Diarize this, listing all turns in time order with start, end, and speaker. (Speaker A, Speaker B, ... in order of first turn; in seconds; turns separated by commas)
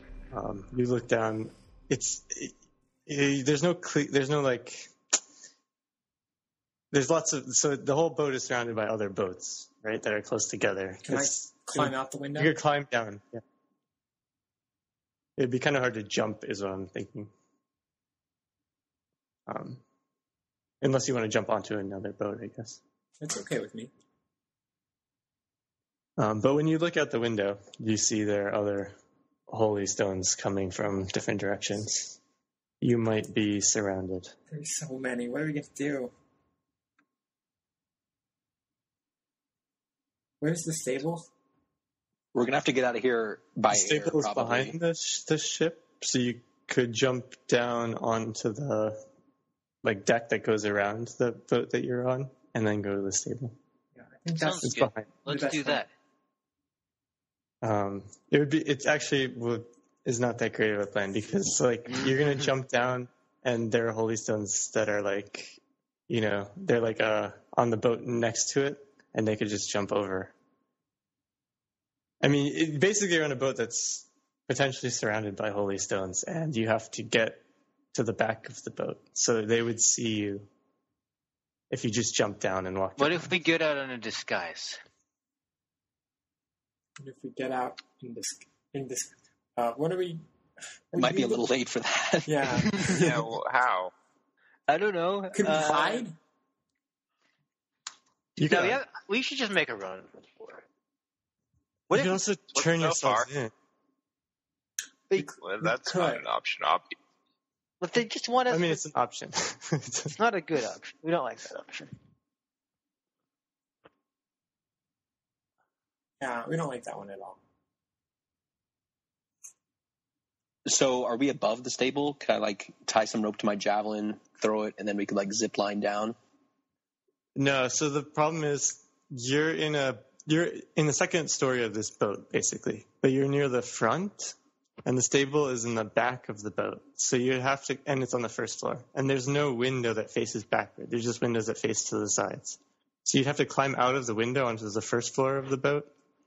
Speaker A: 0.3-2.5, Speaker A: 3.1-4.9, Speaker A: 6.9-13.4, Speaker B: 11.1-12.5, Speaker A: 15.4-17.3, Speaker A: 19.5-19.8, Speaker A: 20.8-22.8, Speaker B: 23.2-23.9, Speaker A: 26.2-28.9, Speaker A: 29.5-32.2, Speaker A: 32.8-34.3, Speaker B: 34.5-36.1, Speaker B: 40.4-41.3, Speaker C: 42.3-44.8, Speaker A: 43.7-49.0, Speaker A: 49.8-53.5, Speaker B: 54.0-54.7, Speaker D: 54.4-55.9, Speaker A: 54.6-55.1, Speaker B: 55.3-55.8, Speaker A: 57.6-70.3, Speaker A: 72.2-77.4, Speaker A: 77.9-80.5, Speaker A: 81.7-83.3, Speaker D: 83.0-84.8, Speaker B: 87.0-90.2, Speaker B: 90.9-91.5, Speaker C: 91.0-92.7, Speaker B: 92.3-93.2, Speaker D: 92.7-93.0, Speaker E: 92.9-93.9, Speaker D: 94.7-96.1, Speaker B: 95.3-96.2, Speaker A: 98.4-98.8, Speaker D: 98.5-100.6, Speaker D: 101.9-102.2, Speaker A: 101.9-103.5, Speaker E: 102.5-103.3, Speaker B: 105.2-106.2, Speaker E: 105.4-107.0, Speaker D: 107.8-108.8, Speaker A: 108.5-110.2, Speaker D: 110.2-111.9, Speaker B: 116.2-117.4, Speaker C: 120.7-126.2, Speaker A: 127.4-145.9